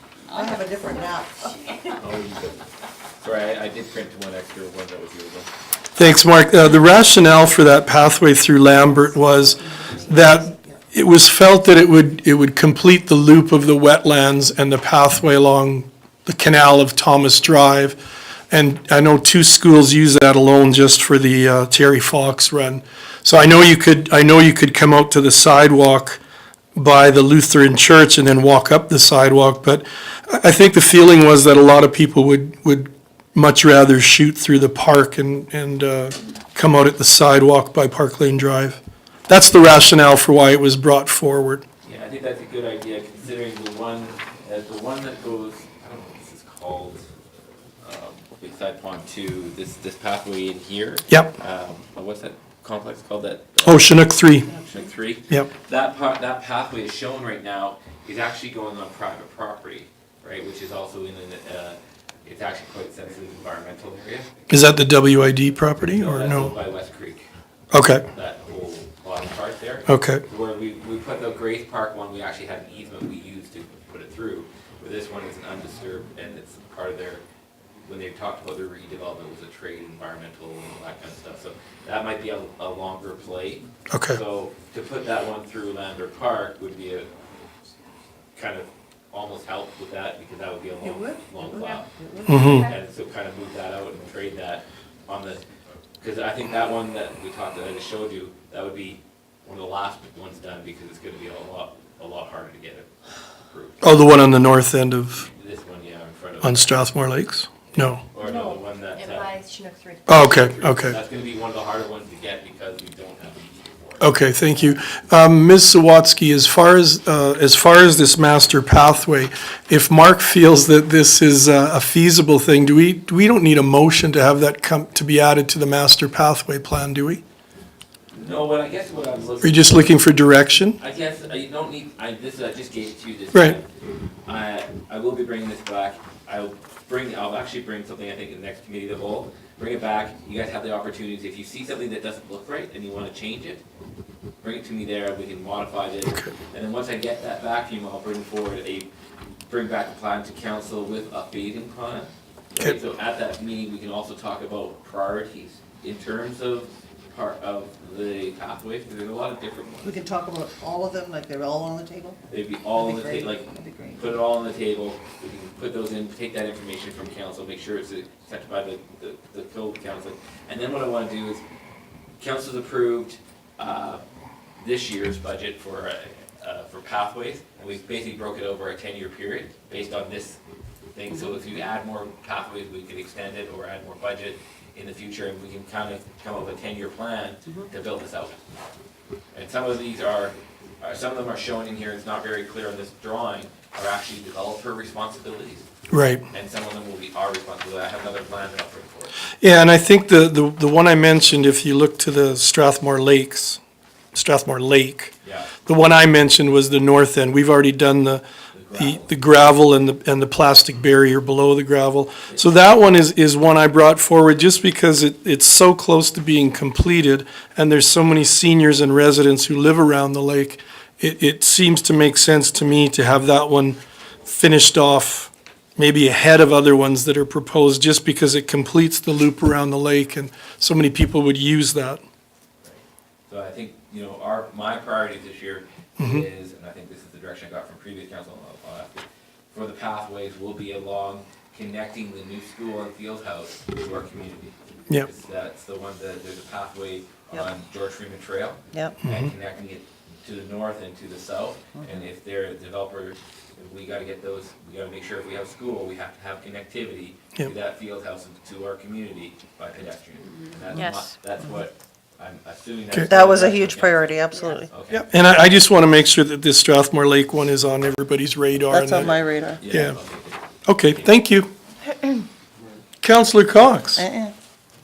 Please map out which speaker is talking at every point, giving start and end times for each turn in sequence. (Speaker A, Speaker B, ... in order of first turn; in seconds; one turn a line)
Speaker A: 0.3-1.7
Speaker B: 1.9-2.6
Speaker B: 3.2-5.5
Speaker C: 6.0-18.0
Speaker A: 9.4-10.8
Speaker C: 18.5-26.2
Speaker C: 26.8-41.6
Speaker B: 41.8-47.0
Speaker B: 47.8-64.5
Speaker C: 53.6-54.5
Speaker C: 64.5-66.5
Speaker B: 65.9-67.3
Speaker C: 67.7-68.0
Speaker B: 68.1-77.2
Speaker C: 69.9-70.2
Speaker B: 77.8-87.1
Speaker C: 83.9-84.2
Speaker B: 88.3-91.9
Speaker A: 90.8-91.2
Speaker D: 91.4-92.8
Speaker A: 91.9-92.5
Speaker C: 92.3-92.7
Speaker B: 92.5-95.4
Speaker B: 96.0-102.9
Speaker B: 103.4-103.8
Speaker C: 103.8-105.2
Speaker B: 105.1-106.9
Speaker C: 106.4-108.0
Speaker B: 107.7-109.3
Speaker D: 108.2-110.3
Speaker C: 110.1-111.0
Speaker B: 110.2-114.1
Speaker C: 114.0-127.2
Speaker B: 128.1-130.1
Speaker C: 129.4-130.8
Speaker B: 130.8-133.7
Speaker B: 134.2-143.6
Speaker B: 144.4-148.9
Speaker B: 149.5-160.0
Speaker A: 159.8-162.2
Speaker B: 162.3-171.4
Speaker A: 162.7-164.1
Speaker B: 172.2-174.0
Speaker B: 174.6-180.4
Speaker B: 180.9-188.4
Speaker B: 189.3-195.7
Speaker C: 195.9-196.2
Speaker B: 196.3-199.2
Speaker C: 199.4-203.6
Speaker C: 204.1-205.1
Speaker B: 205.2-205.5
Speaker C: 205.7-208.2
Speaker B: 208.5-209.1
Speaker C: 208.8-232.0
Speaker B: 232.6-265.1
Speaker C: 236.0-236.2
Speaker A: 248.7-249.0
Speaker C: 249.0-249.3
Speaker A: 251.8-252.0
Speaker A: 263.1-264.7
Speaker C: 264.9-270.0
Speaker A: 268.7-269.6
Speaker B: 268.9-271.1
Speaker C: 270.7-271.5
Speaker C: 273.0-274.0
Speaker A: 273.9-274.3